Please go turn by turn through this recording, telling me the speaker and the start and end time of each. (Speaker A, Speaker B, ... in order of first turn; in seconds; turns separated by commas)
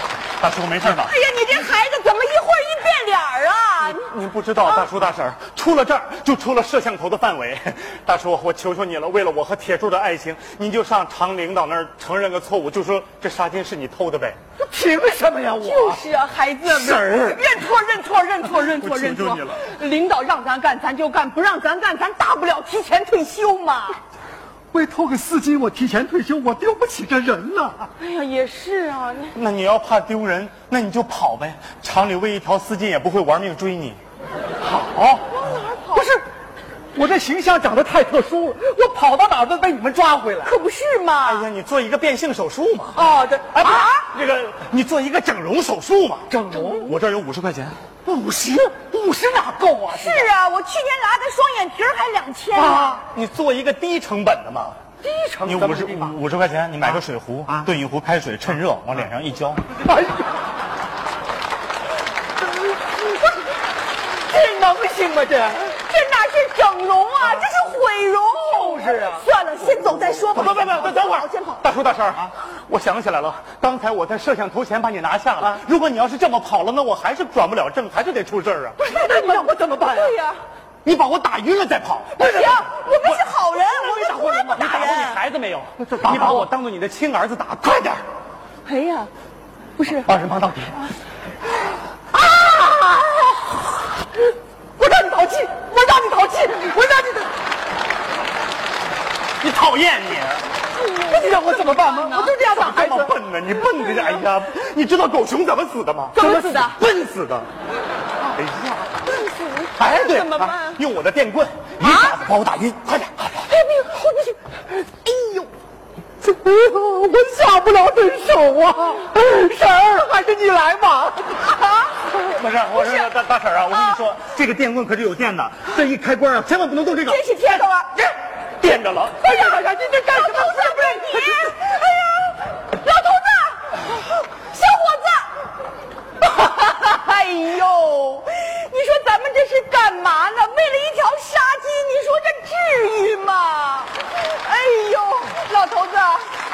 Speaker A: 0.4-1.1, Speaker B: 0.8-4.1, Speaker A: 3.8-14.4, Speaker C: 14.7-16.0, Speaker B: 14.8-24.0, Speaker C: 16.7-17.4, Speaker A: 18.6-19.7, Speaker C: 24.7-27.9, Speaker B: 28.0-29.4, Speaker A: 29.3-34.0, Speaker C: 34.6-35.3, Speaker B: 35.4-36.2, Speaker C: 35.9-36.2, Speaker C: 37.0-40.5, Speaker B: 40.4-41.5, Speaker A: 41.2-47.8, Speaker C: 43.0-43.8, Speaker B: 43.1-44.1, Speaker C: 46.3-46.9, Speaker B: 46.5-46.9, Speaker C: 48.1-50.3, Speaker B: 49.9-53.0, Speaker A: 52.6-54.8, Speaker C: 55.0-56.2, Speaker A: 55.5-59.6, Speaker C: 59.9-60.3, Speaker C: 62.8-63.1, Speaker C: 64.2-65.8, Speaker B: 65.7-71.7, Speaker C: 68.4-69.2, Speaker A: 70.3-78.8, Speaker B: 78.8-80.4, Speaker C: 78.9-80.2, Speaker A: 80.8-88.0, Speaker B: 82.2-85.2, Speaker C: 85.8-86.5, Speaker B: 88.7-89.1, Speaker B: 89.8-90.1, Speaker A: 90.0-90.8, Speaker B: 92.2-93.5, Speaker C: 92.5-92.8, Speaker B: 94.8-95.7, Speaker C: 95.7-97.3, Speaker A: 99.4-100.5, Speaker B: 100.8-102.9, Speaker C: 101.0-103.1, Speaker A: 102.3-107.5, Speaker B: 103.9-104.2, Speaker B: 106.1-106.8, Speaker A: 108.3-109.0, Speaker B: 109.1-110.8, Speaker A: 109.8-113.5, Speaker B: 111.8-112.2, Speaker B: 113.5-114.4, Speaker B: 115.0-115.5, Speaker C: 116.2-121.6, Speaker A: 122.2-129.2, Speaker B: 122.8-123.1, Speaker B: 127.1-127.9, Speaker C: 129.2-131.5, Speaker B: 129.2-135.4, Speaker B: 136.2-146.3